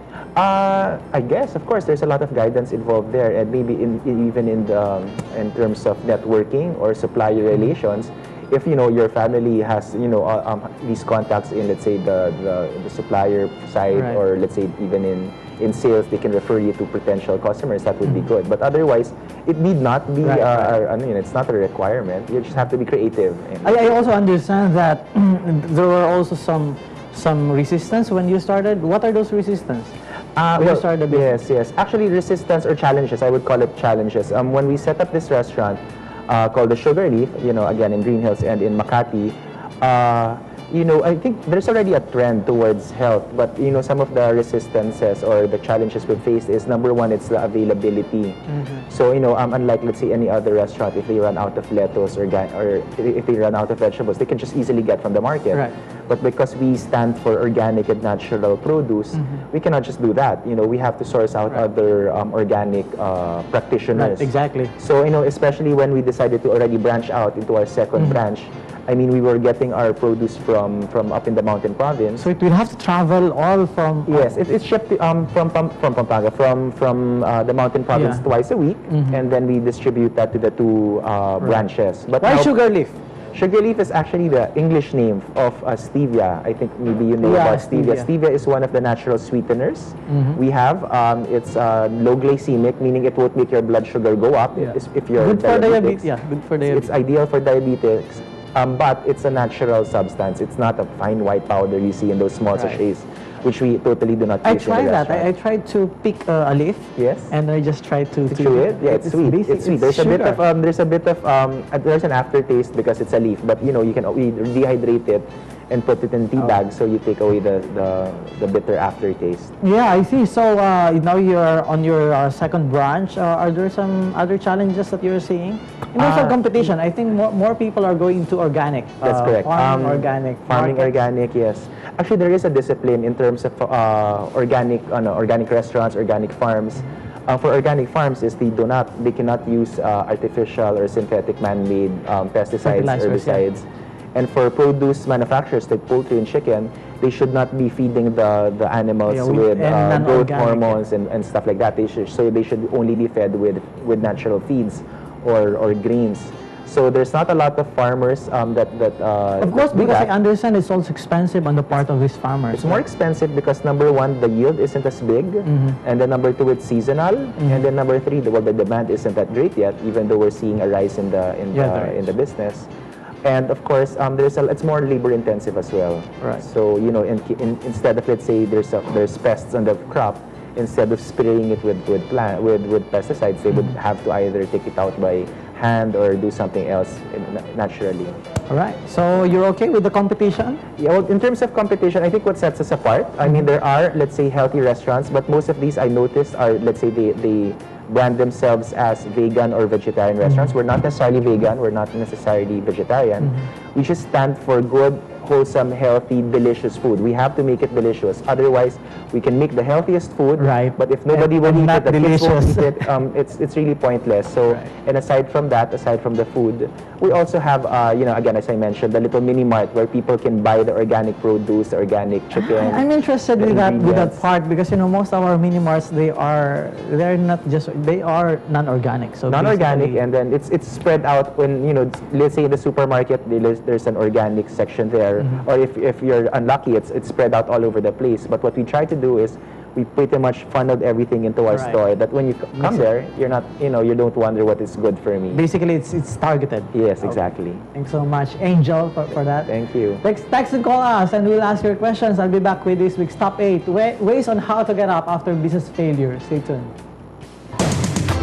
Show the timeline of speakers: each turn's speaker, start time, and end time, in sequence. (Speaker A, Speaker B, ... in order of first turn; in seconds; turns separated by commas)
Speaker A: 0.3-23.9, Speaker B: 13.9-14.2, Speaker B: 20.2-20.8, Speaker B: 23.6-29.9, Speaker A: 30.4-72.3, Speaker B: 30.6-31.3, Speaker B: 48.5-48.8, Speaker B: 63.9-64.7, Speaker B: 72.2-74.3, Speaker A: 74.1-82.5, Speaker B: 77.9-78.2, Speaker B: 78.9-79.2, Speaker B: 82.2-83.0, Speaker A: 83.3-96.0, Speaker B: 87.2-88.1, Speaker B: 90.1-90.4, Speaker B: 94.6-97.0, Speaker A: 96.6-105.3, Speaker B: 102.5-102.8, Speaker B: 104.4-110.4, Speaker A: 107.0-107.3, Speaker A: 108.3-119.5, Speaker B: 119.6-130.9, Speaker A: 126.0-126.6, Speaker A: 129.0-160.1, Speaker B: 142.6-143.4, Speaker B: 149.1-150.8, Speaker B: 159.4-162.8, Speaker A: 162.5-172.7, Speaker B: 165.5-165.8, Speaker B: 171.5-172.1, Speaker A: 173.2-188.1, Speaker B: 188.5-190.6, Speaker A: 190.8-222.8, Speaker B: 210.4-212.9, Speaker B: 222.3-230.0, Speaker A: 223.4-224.2, Speaker A: 229.3-245.4, Speaker B: 241.5-241.8, Speaker B: 242.6-242.8, Speaker B: 245.3-247.2, Speaker A: 246.7-247.6, Speaker B: 247.7-256.7, Speaker A: 249.4-250.0